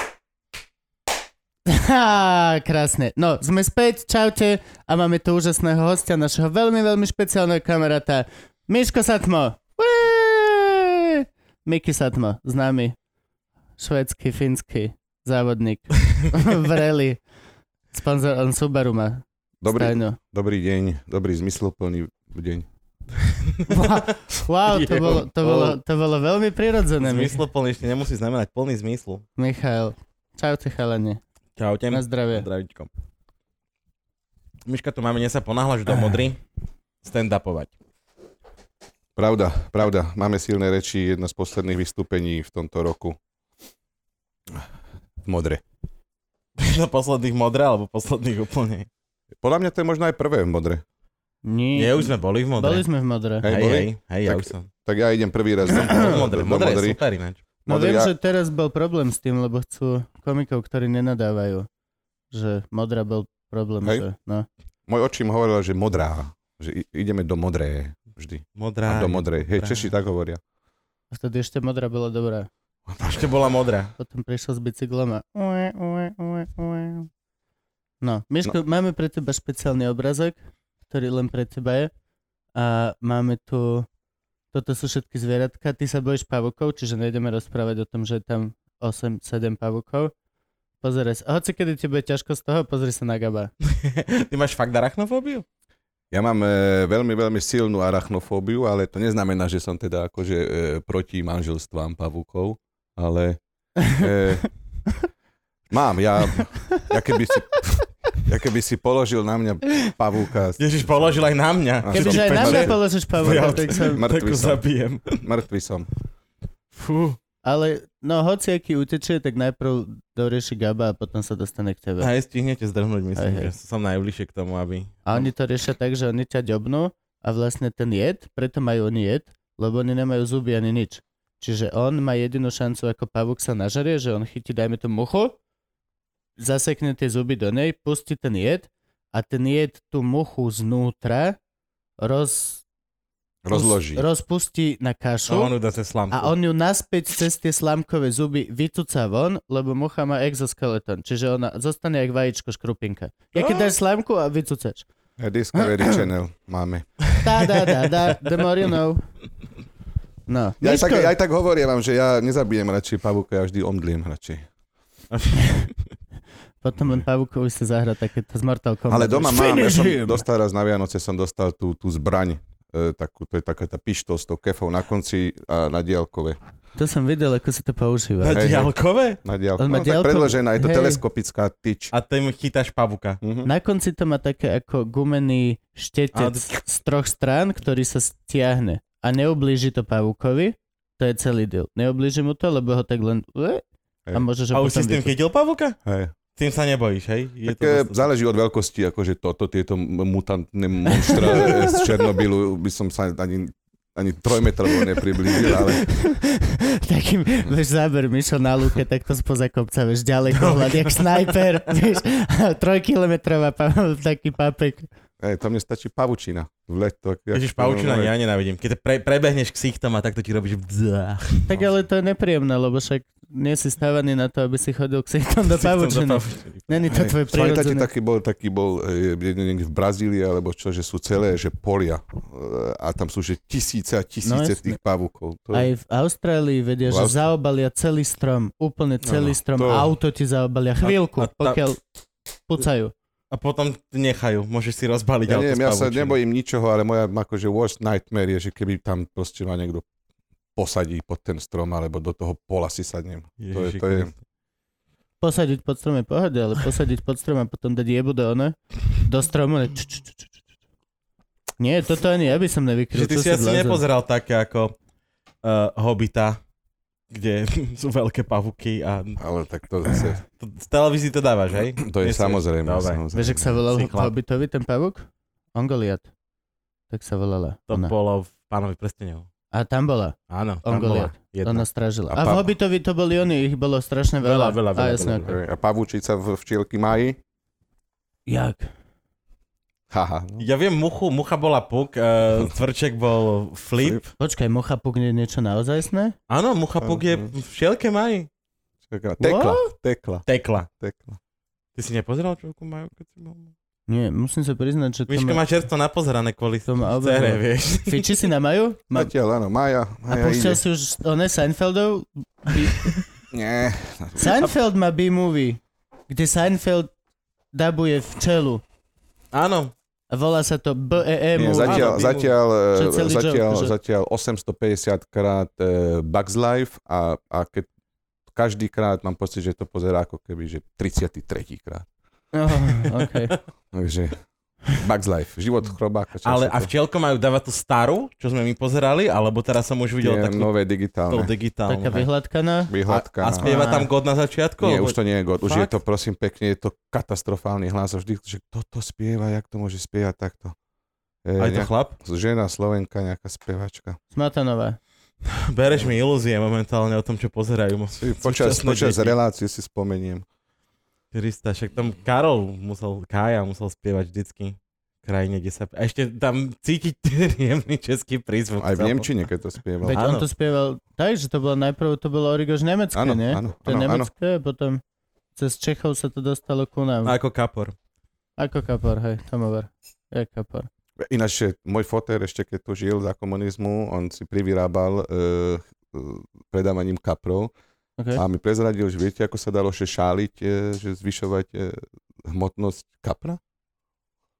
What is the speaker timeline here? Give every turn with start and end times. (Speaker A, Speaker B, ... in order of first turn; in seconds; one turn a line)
Speaker A: 1.7-13.0
Speaker A: 13.8-17.2
Speaker A: 17.9-20.2
Speaker B: 19.6-22.7
Speaker C: 23.2-25.8
Speaker A: 23.7-27.4
Speaker C: 27.0-29.2
Speaker A: 29.4-31.2
Speaker C: 31.6-32.9
Speaker A: 31.9-32.5
Speaker C: 34.7-36.4
Speaker C: 37.0-37.7
Speaker B: 39.2-43.2
Speaker B: 45.2-45.6
Speaker C: 46.6-48.9
Speaker B: 49.4-50.8
Speaker A: 51.5-53.5
Speaker C: 51.7-52.9
Speaker B: 53.4-57.0
Speaker C: 53.4-54.7
Speaker C: 55.7-57.4
Speaker A: 55.7-56.0
Speaker B: 57.7-58.1
Speaker A: 57.7-61.7
Speaker A: 62.3-64.5
Speaker B: 64.9-70.4
Speaker C: 68.6-69.9
Speaker A: 71.1-72.5
Speaker B: 72.9-73.3
Speaker C: 73.0-73.9
Speaker A: 74.0-77.1
Speaker A: 78.0-81.9
Speaker A: 82.5-83.9
Speaker A: 84.5-90.1
Speaker A: 90.8-93.5
Speaker C: 93.6-95.4
Speaker B: 96.1-104.5
Speaker B: 105.7-110.9
Speaker C: 110.6-115.2
Speaker B: 111.8-114.6
Speaker A: 111.9-114.0
Speaker B: 115.1-115.9
Speaker C: 116.7-117.2
Speaker A: 117.4-122.1
Speaker C: 122.0-125.2
Speaker A: 123.2-123.5
Speaker A: 125.0-135.4
Speaker A: 136.4-141.4
Speaker A: 142.0-142.6
Speaker B: 143.4-144.0
Speaker A: 143.5-145.6
Speaker C: 145.3-146.3
Speaker A: 146.1-154.9
Speaker C: 153.4-153.7
Speaker B: 155.2-157.1
Speaker A: 155.6-156.0
Speaker A: 157.2-159.1
Speaker A: 160.3-161.1
Speaker B: 160.6-164.5
Speaker C: 165.1-165.7
Speaker A: 166.6-170.2
Speaker B: 168.9-176.4
Speaker A: 176.8-178.6
Speaker C: 178.2-179.2
Speaker B: 178.3-178.7
Speaker B: 179.2-181.9
Speaker A: 179.6-181.0
Speaker C: 181.9-183.2
Speaker B: 183.2-183.5
Speaker A: 183.4-195.1
Speaker C: 186.1-186.5
Speaker C: 194.5-195.8
Speaker B: 195.8-196.1
Speaker C: 196.3-198.1
Speaker B: 197.5-205.8
Speaker A: 200.9-201.9
Speaker A: 204.9-214.9
Speaker C: 210.3-211.7
Speaker B: 215.2-218.1
Speaker C: 217.3-221.5
Speaker A: 221.5-227.9
Speaker C: 225.5-226.7
Speaker B: 226.9-235.7
Speaker A: 234.2-234.8
Speaker A: 235.5-241.8
Speaker B: 236.9-237.2
Speaker B: 239.0-239.9
Speaker C: 240.8-241.6
Speaker A: 242.5-242.9
Speaker C: 243.3-246.2
Speaker B: 245.2-249.9
Speaker B: 250.6-254.1
Speaker C: 253.4-254.1
Speaker A: 255.2-260.3
Speaker A: 261.6-263.8
Speaker C: 262.9-264.8
Speaker C: 265.4-266.4
Speaker C: 267.1-269.2
Speaker B: 269.2-270.2
Speaker C: 269.9-273.0
Speaker B: 271.5-273.6
Speaker A: 273.1-276.1
Speaker C: 273.7-274.1
Speaker A: 276.9-277.9
Speaker C: 277.7-279.3
Speaker A: 279.5-285.3
Speaker C: 280.3-281.6
Speaker B: 282.1-282.5
Speaker C: 284.2-285.4
Speaker B: 285.2-287.2
Speaker A: 288.3-288.7
Speaker B: 289.9-290.5
Speaker C: 290.4-294.1
Speaker A: 294.2-296.1
Speaker C: 296.3-298.3
Speaker B: 296.8-297.3
Speaker B: 298.9-300.2
Speaker A: 299.2-299.7
Speaker C: 300.2-300.7
Speaker B: 300.8-301.2
Speaker C: 301.8-303.5
Speaker A: 303.9-305.4
Speaker C: 305.1-308.1
Speaker A: 306.7-309.1
Speaker B: 308.9-310.6
Speaker A: 310.1-312.9
Speaker B: 313.3-314.5
Speaker A: 314.1-316.9
Speaker A: 317.5-318.6
Speaker C: 319.3-319.7
Speaker A: 320.1-321.9
Speaker B: 321.4-327.7
Speaker C: 321.6-322.3
Speaker A: 322.8-323.7
Speaker B: 328.3-331.9
Speaker A: 332.3-333.3
Speaker B: 333.7-334.2
Speaker B: 334.7-336.7
Speaker C: 336.2-340.5
Speaker B: 340.0-341.3
Speaker C: 341.1-342.1
Speaker A: 341.7-342.7
Speaker B: 342.7-343.5
Speaker C: 342.8-345.7
Speaker A: 343.4-343.9
Speaker B: 344.6-350.5
Speaker B: 351.2-354.0
Speaker C: 351.4-351.9
Speaker A: 354.1-354.8
Speaker C: 355.2-359.1
Speaker B: 358.0-360.2
Speaker C: 361.1-369.1
Speaker B: 368.6-370.1
Speaker C: 369.8-370.2
Speaker A: 369.8-374.8
Speaker B: 372.9-374.1
Speaker A: 375.4-377.1
Speaker C: 377.0-377.8
Speaker A: 378.4-380.7
Speaker B: 381.0-387.5
Speaker B: 388.1-393.4